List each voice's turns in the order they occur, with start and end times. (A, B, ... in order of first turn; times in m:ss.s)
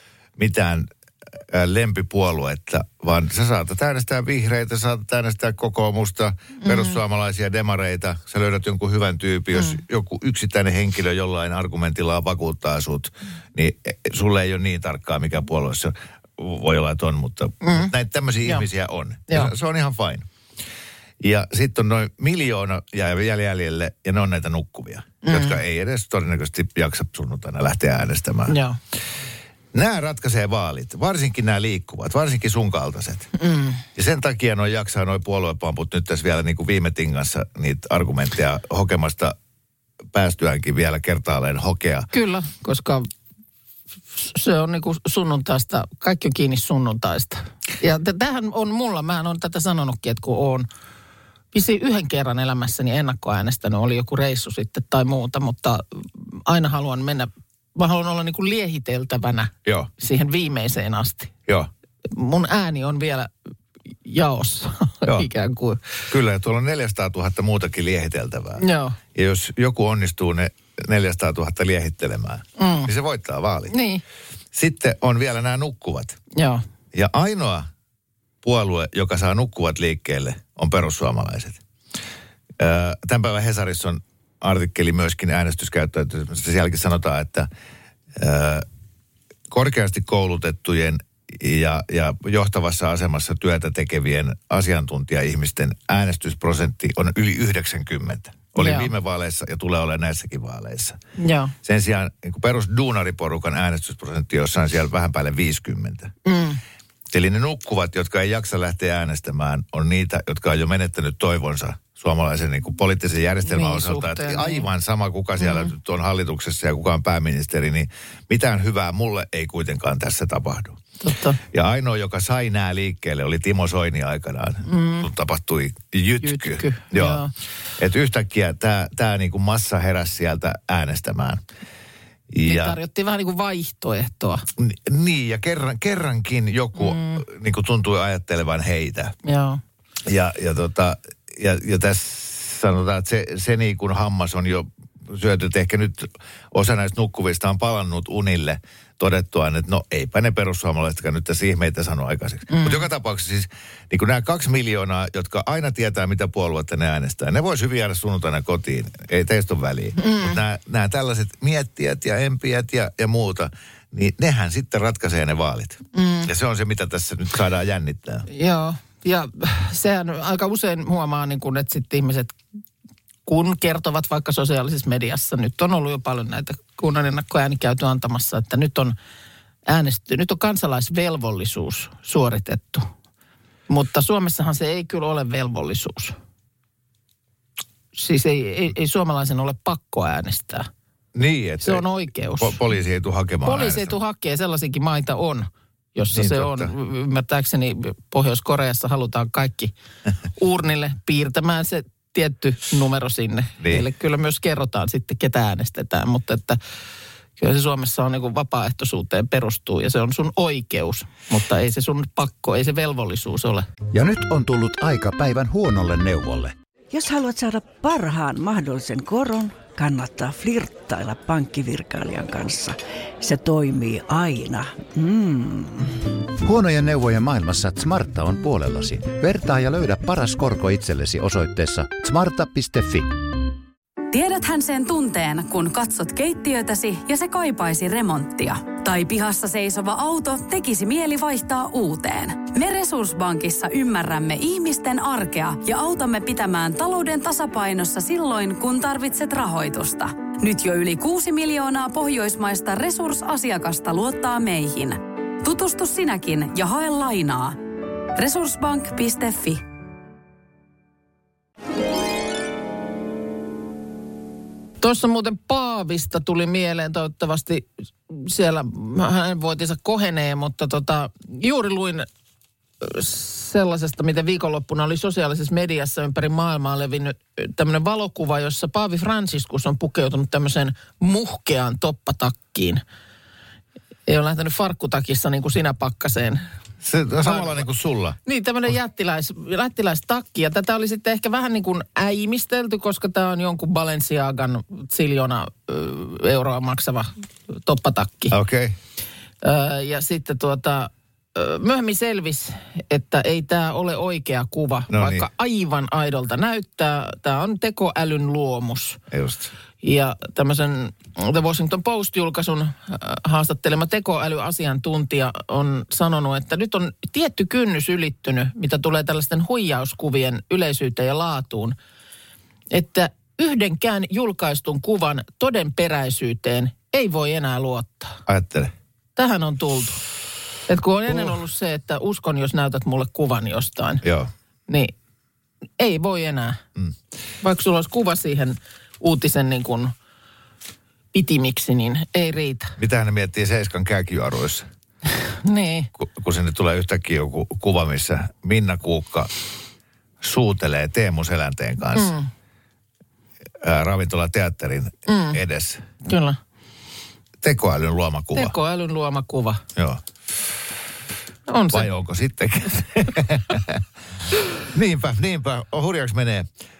0:00.4-0:00.9 A
0:01.4-0:20.3 A
0:06.6-0:07.0 B
0:09.5-0:09.8 B
0:17.6-0:17.9 B
0:21.2-0:28.6 A
0:25.2-0:25.6 B
0:28.5-0:28.8 B
0:29.7-0:33.3 A
0:33.4-0:33.8 B
0:33.9-0:39.4 A
0:40.1-0:42.1 A
0:42.1-0:43.1 B
0:44.1-0:50.7 B
0:51.5-1:01.3 B
0:59.6-0:59.9 A
1:02.1-1:03.3 B
1:04.0-1:05.8 B
1:06.1-1:13.7 A
1:08.6-1:09.0 B
1:12.6-1:12.9 B
1:13.7-1:14.0 B
1:14.5-1:16.2 A
1:16.3-1:16.6 B
1:16.9-1:17.7 A
1:18.4-1:21.6 A
1:22.6-1:27.5 A
1:28.1-1:28.6 A
1:29.5-1:41.0 A
1:38.6-1:38.9 B
1:41.2-1:41.5 B
1:41.6-1:46.1 A
1:46.2-1:46.6 B
1:47.1-2:00.8 A
1:53.4-1:54.7 B
1:55.4-1:55.7 B
2:01.0-2:01.4 B
2:01.5-2:07.2 A
2:04.6-2:05.1 B
2:06.2-2:07.3 B
2:07.8-2:11.4 A
2:12.3-2:12.8 A
2:12.4-2:14.4 B
2:14.6-2:19.1 A
2:16.8-2:17.2 B
2:19.2-2:19.6 B
2:20.0-2:48.2 A
2:32.5-2:32.9 B
2:40.0-2:40.4 B
2:45.9-2:46.3 B
2:48.3-2:52.4 B
2:53.2-2:59.0 B
2:59.7-3:02.9 B
3:03.7-3:06.2 B
3:07.9-3:10.7 B
3:11.1-3:11.8 A
3:11.6-3:12.6 B
3:12.4-3:14.0 A
3:13.4-3:19.7 B
3:16.1-3:16.7 A
3:20.4-3:26.6 B
3:23.6-3:23.8 A
3:27.4-3:33.7 B
3:33.9-3:36.5 C
3:36.9-3:45.9 D
3:46.4-3:53.2 C
3:54.1-4:17.6 E
4:18.1-4:19.6 E
4:24.8-4:32.0 B
4:32.8-4:42.8 B
4:44.1-4:46.4 B
4:46.8-4:48.2 A
4:47.2-4:47.6 B
4:48.2-4:58.3 B
4:58.3-4:58.8 A
4:59.4-5:09.0 B
5:04.9-5:05.3 A
5:09.1-5:09.5 A
5:09.8-5:21.8 B
5:22.7-5:28.2 B
5:28.3-5:28.7 A
5:29.2-5:30.0 B
5:30.7-5:34.0 B
5:34.0-5:34.3 A
5:34.7-5:34.9 B
5:35.8-5:36.6 B
5:37.4-5:39.9 B
5:41.1-5:42.7 B
5:42.8-5:44.6 A
5:45.4-5:45.9 B
5:46.0-5:49.3 A
5:50.2-5:52.1 A
5:51.9-5:52.3 B
5:53.6-5:55.8 A
5:55.1-5:55.4 B
5:56.0-5:56.4 B
5:57.4-5:58.5 A
5:58.3-5:59.6 B
5:59.8-6:00.0 A
6:01.5-6:01.9 B
6:01.7-6:03.8 A
6:04.6-6:06.5 A